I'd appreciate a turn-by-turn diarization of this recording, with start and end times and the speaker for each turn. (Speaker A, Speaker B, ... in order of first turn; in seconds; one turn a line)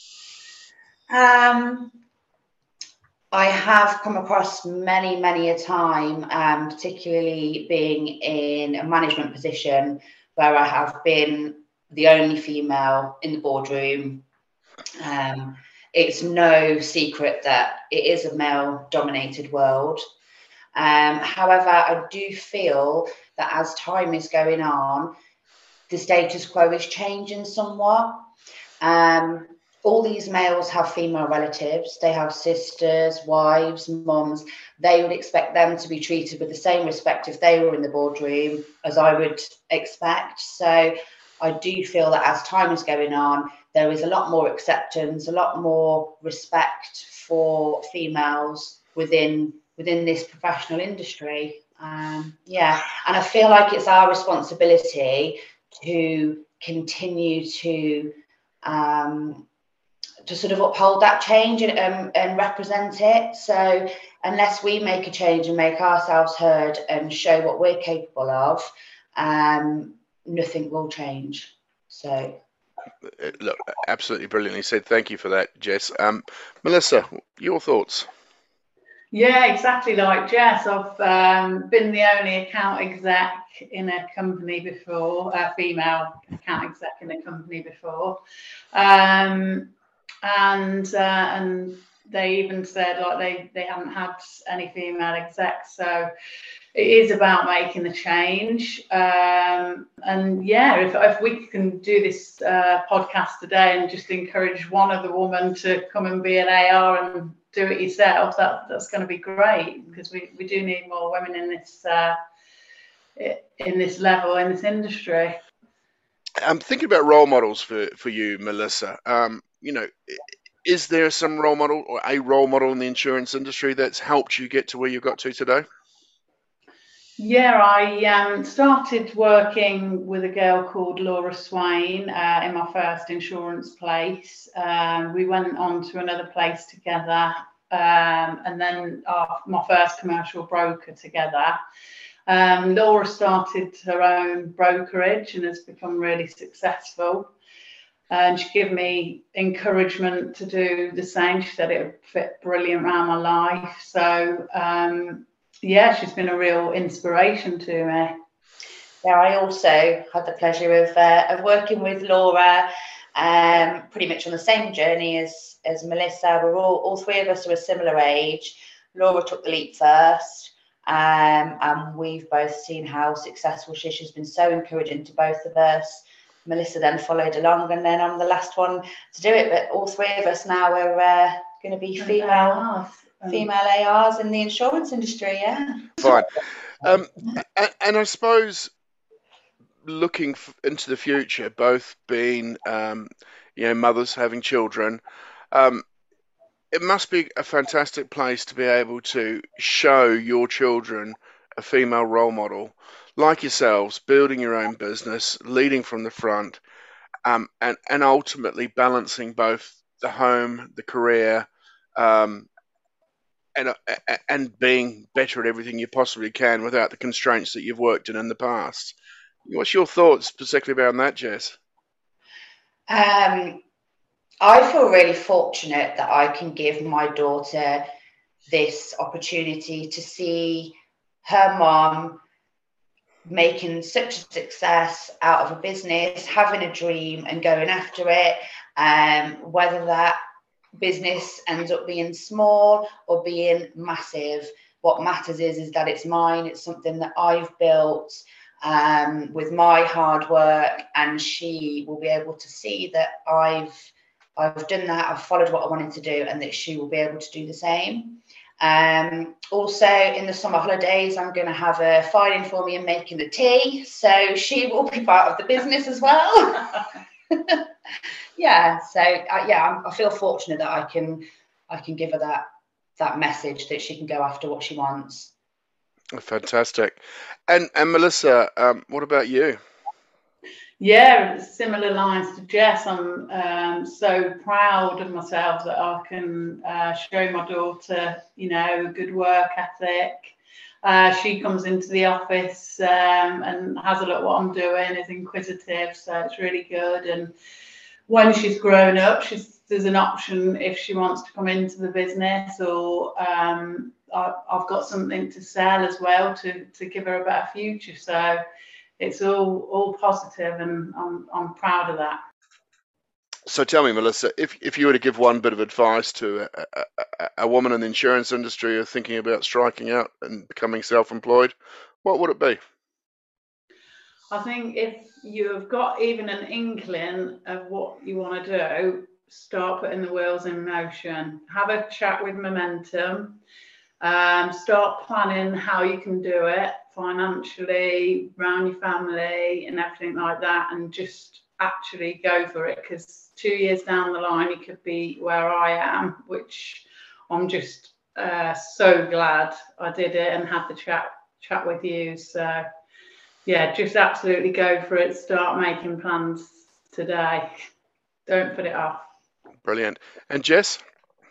Speaker A: 1.1-1.9
Speaker A: 3.3-14.2
Speaker A: 15.0-20.0
Speaker A: 20.7-25.1
Speaker A: 25.9-28.3
Speaker A: 28.8-59.5
Speaker A: 60.2-72.4
Speaker B: 73.1-78.1
Speaker C: 79.1-88.2
Speaker C: 88.7-89.7
Speaker C: 90.2-96.1
Speaker C: 96.7-112.2
Speaker C: 113.2-115.4
Speaker B: 116.4-125.7
Speaker C: 127.2-141.6
Speaker C: 142.3-147.3
Speaker C: 148.1-158.2
Speaker A: 159.0-182.7
Speaker C: 182.0-183.5
Speaker A: 183.3-186.1
Speaker B: 186.0-186.3
Speaker B: 186.8-188.7
Speaker B: 189.8-195.8
Speaker B: 196.7-206.6
Speaker B: 207.2-212.5
Speaker B: 213.6-221.6
Speaker A: 222.9-223.6
Speaker A: 224.4-227.9
Speaker A: 228.5-232.2
Speaker A: 233.3-240.2
Speaker A: 240.8-267.6
Speaker A: 268.4-272.5
Speaker A: 273.0-275.3
Speaker B: 276.1-279.6
Speaker C: 280.8-297.3
Speaker C: 298.1-308.4
Speaker C: 309.0-312.2
Speaker B: 313.5-322.6
Speaker C: 324.3-333.4
Speaker C: 334.0-352.7
Speaker C: 353.5-357.6
Speaker C: 358.3-359.1
Speaker B: 359.6-360.8